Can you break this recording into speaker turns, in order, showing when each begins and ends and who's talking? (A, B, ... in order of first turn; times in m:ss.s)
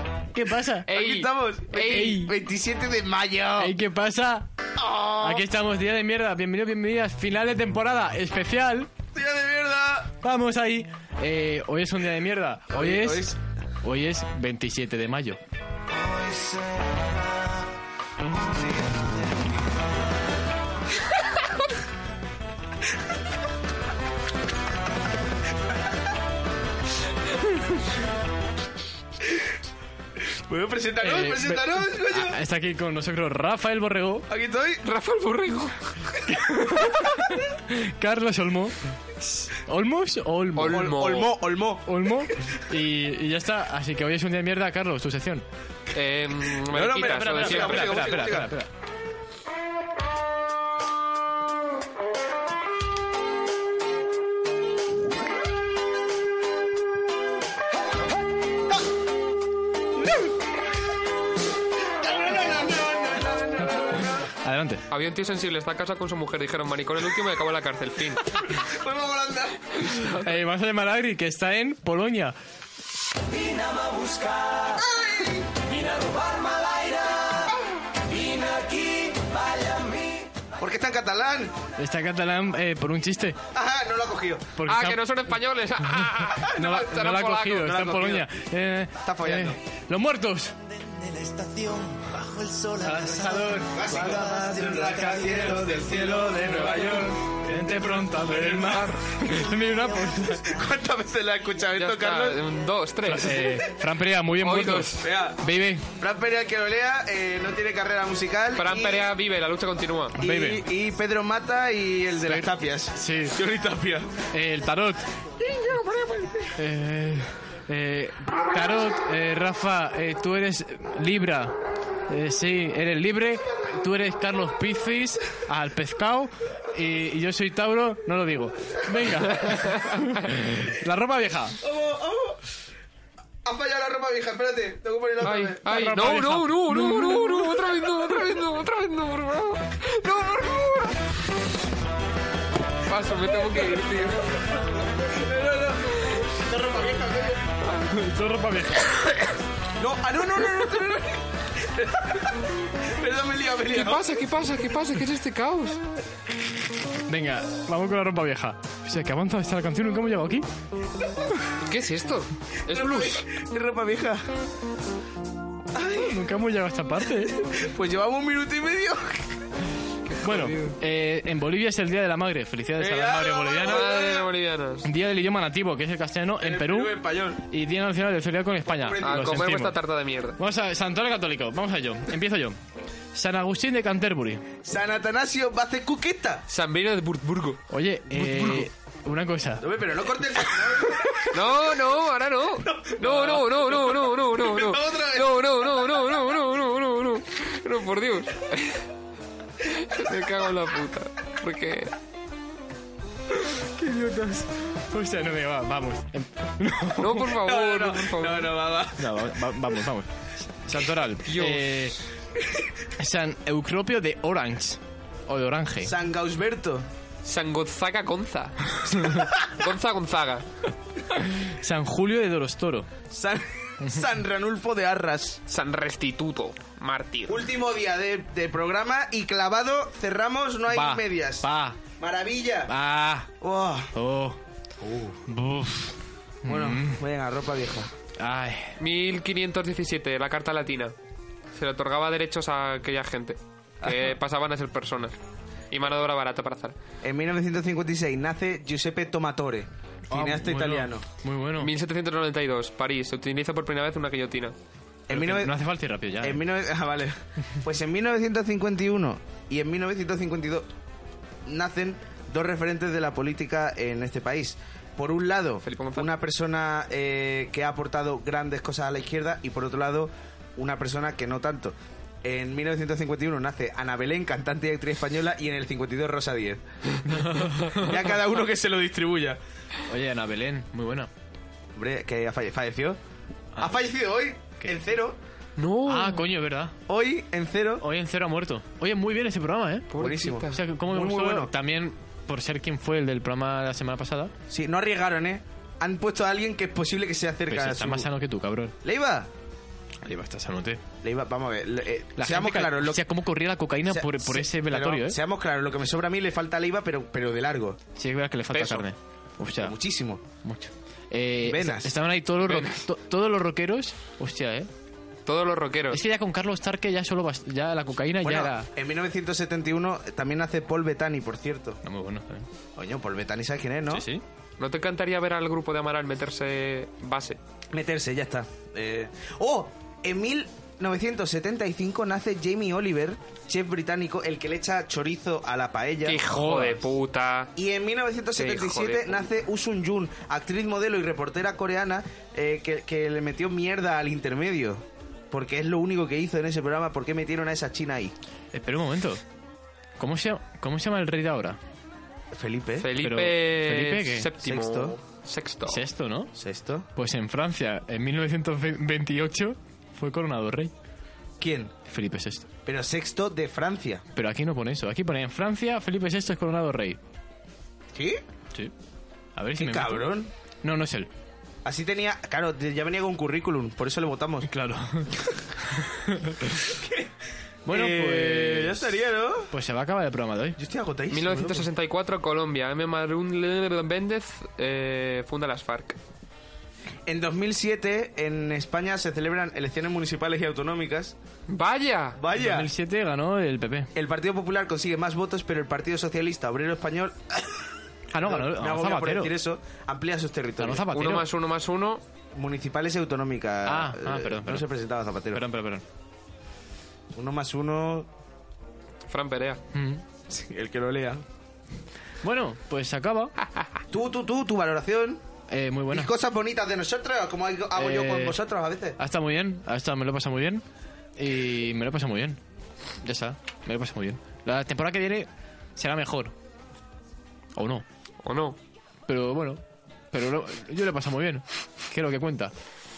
0:00.3-0:00.9 A
0:00.9-0:02.2 B
0:00.9-0:03.8 C
0:01.8-0:02.4 A
0:03.6-0:04.5 A
0:04.8-0:05.4 C
0:05.2-0:08.9 A
0:09.1-0:10.2 C
0:10.2-0:15.4 A
0:12.7-0:13.4 C
0:16.1-0:16.5 C
0:18.6-0:19.1 C
0:30.2-0:32.4 C
0:31.0-0:34.3 A
0:34.3-0:34.8 C
0:34.8-0:35.8 B
0:36.2-0:40.9 A
0:40.6-0:41.3 B
0:40.6-0:42.1 C
0:41.9-0:45.4 A
0:45.9-0:48.2 B
0:46.7-0:48.6 C
0:46.8-0:48.7 A
1:02.0-1:04.3 C
1:04.4-1:04.8 A
1:04.9-1:08.2 B
1:08.5-1:09.8 C
1:10.2-1:12.4 A
1:13.3-1:14.8 D
1:14.8-1:15.5 C
1:15.7-1:17.4 D
1:18.1-1:20.2 D
1:20.6-1:21.6 C
1:21.8-1:23.4 A
1:23.5-1:24.5 C
1:24.6-1:25.0 A
1:24.7-1:27.9 B
1:25.8-1:30.5 A
1:27.6-1:28.2 C
1:29.0-1:29.6 C
1:30.6-1:35.3 D
1:32.8-1:40.5 A
1:33.7-1:37.2 C
1:38.6-1:39.0 B
1:39.3-1:40.2 D
1:40.5-1:42.4 C
1:41.8-1:43.6 B
1:43.1-1:45.9 A
1:44.4-1:45.0 B
1:45.0-1:45.4 C
1:46.0-1:49.1 C
1:48.6-1:50.2 B
1:50.2-1:54.2 C
1:50.2-1:50.6 A
1:52.2-1:53.4 A
1:54.3-1:55.1 A
1:55.6-1:56.5 C
1:56.5-2:01.6 A
2:02.1-2:11.6 A
2:09.5-2:10.0 B
2:11.6-2:12.4 C
2:13.4-2:16.1 C
2:15.2-2:21.0 B
2:15.7-2:17.4 A
2:22.9-2:24.6 B
2:23.5-2:27.6 C
2:27.6-2:27.9 B
2:27.9-2:29.1 A
2:29.8-2:34.1 C
2:33.7-2:35.8 B
2:37.1-2:40.5 A
2:41.6-2:43.3 B
2:42.7-2:44.3 C
2:45.7-2:46.2 C
2:46.0-2:47.5 A
2:47.3-2:49.4 C
2:50.1-2:50.8 B
2:50.2-2:53.9 A
2:52.8-2:54.3 C
2:53.6-2:54.9 B
2:54.8-2:59.8 A
2:56.4-2:57.4 C
2:58.8-2:59.5 C
2:59.0-3:00.4 B
3:00.4-3:02.6 A
3:03.2-3:04.4 A
3:04.6-3:06.4 C
3:06.5-3:07.6 B
3:07.7-3:09.7 A
3:08.2-3:08.7 C
3:09.6-3:11.4 C
3:11.2-3:18.8 B
3:12.6-3:16.0 C
3:19.6-3:21.9 B
3:23.8-3:27.3 A
3:27.0-3:28.5 B
3:27.3-3:29.2 C
3:29.0-3:32.0 A
3:31.3-3:31.9 B
3:33.0-3:35.9 A
3:35.8-3:36.9 C
3:37.2-3:40.5 B
3:41.2-3:42.9 A
3:43.1-3:45.4 C
3:45.5-3:47.4 B
3:47.3-3:51.5 C
3:50.7-3:51.8 A
3:52.0-3:52.7 C
3:52.7-3:53.3 A
3:53.4-3:53.9 C
3:54.0-3:54.4 A
3:54.8-3:55.2 C
3:55.3-3:57.0 A
3:56.5-3:57.9 C
3:58.2-3:58.8 A
3:58.8-4:00.9 B
4:01.6-4:05.2 B
4:03.8-4:04.1 C
4:05.7-4:06.8 B
4:07.0-4:11.1 C
4:10.1-4:11.7 A
4:11.6-4:14.6 B
4:15.1-4:15.5 C
4:15.1-4:16.4 A
4:16.2-4:20.7 C
4:21.5-4:39.4 C
4:25.6-4:26.1 B
4:37.1-4:38.0 A
4:39.9-4:41.1 A
4:41.8-4:43.0 C
4:43.6-4:45.2 C
4:45.6-4:46.2 B
4:45.9-4:46.8 A
4:46.9-4:47.8 C
4:47.8-4:49.9 A
4:49.9-4:50.6 B
4:50.0-4:51.5 C
4:50.5-4:54.3 A
4:54.5-4:58.1 C
4:57.5-4:58.8 A
4:58.8-4:59.3 C
5:00.0-5:00.8 A
5:01.0-5:03.0 C
5:02.2-5:05.2 A
5:03.9-5:07.8 C
5:08.0-5:09.8 A
5:08.5-5:08.8 B
5:09.6-5:10.2 C
5:10.4-5:14.7 A
5:11.4-5:12.0 C
5:12.5-5:12.8 B
5:15.3-5:16.0 B
5:15.9-5:18.7 A
5:18.2-5:21.8 C
5:21.8-5:22.5 A
5:22.8-5:24.1 C
5:23.9-5:24.2 A
5:24.6-5:27.4 B
5:27.7-5:36.2 C
5:36.0-5:37.5 B
5:36.3-5:36.9 A
5:37.6-5:48.2 C
5:38.4-5:39.3 B
5:48.5-5:49.2 A
5:50.0-5:51.6 A
5:52.3-5:52.9 C
5:52.8-5:55.8 B
5:53.0-5:54.3 A
5:54.4-5:55.0 C
5:55.7-5:56.3 A
5:56.4-5:56.9 C
5:57.0-6:00.7 A
6:01.4-6:01.8 C
6:01.9-6:02.5 A
6:02.7-6:04.0 C
6:04.2-6:07.0 A
6:07.9-6:08.2 C
6:09.4-6:11.1 A
6:09.6-6:10.3 C
6:11.6-6:14.5 C
6:14.5-6:16.6 A
6:16.7-6:17.1 C
6:17.7-6:18.9 A
6:17.7-6:19.5 C
6:19.5-6:20.6 A
6:20.6-6:21.7 C
6:21.1-6:26.0 B
6:27.1-6:31.2 C
6:31.5-6:32.2 B
6:32.2-6:32.7 C
6:32.3-6:33.9 A
6:34.0-6:40.9 C
6:38.1-6:39.3 A
6:40.6-6:41.3 A
6:40.9-6:42.0 B
6:42.3-6:45.4 C
6:43.7-6:44.7 A
6:45.3-6:45.8 A
6:47.1-6:48.1 C
6:49.1-6:49.6 B
6:49.7-6:50.0 A
6:50.3-6:51.2 C
6:52.2-6:53.3 A
6:53.9-6:55.2 C
6:55.5-6:56.1 A
6:55.9-6:59.0 C
6:57.8-6:58.4 A
6:59.0-7:00.6 A
7:01.2-7:02.4 A
7:03.0-7:06.3 A
7:07.6-7:07.8 A
7:08.2-7:08.6 B
7:09.1-7:09.6 A
7:10.1-7:12.5 A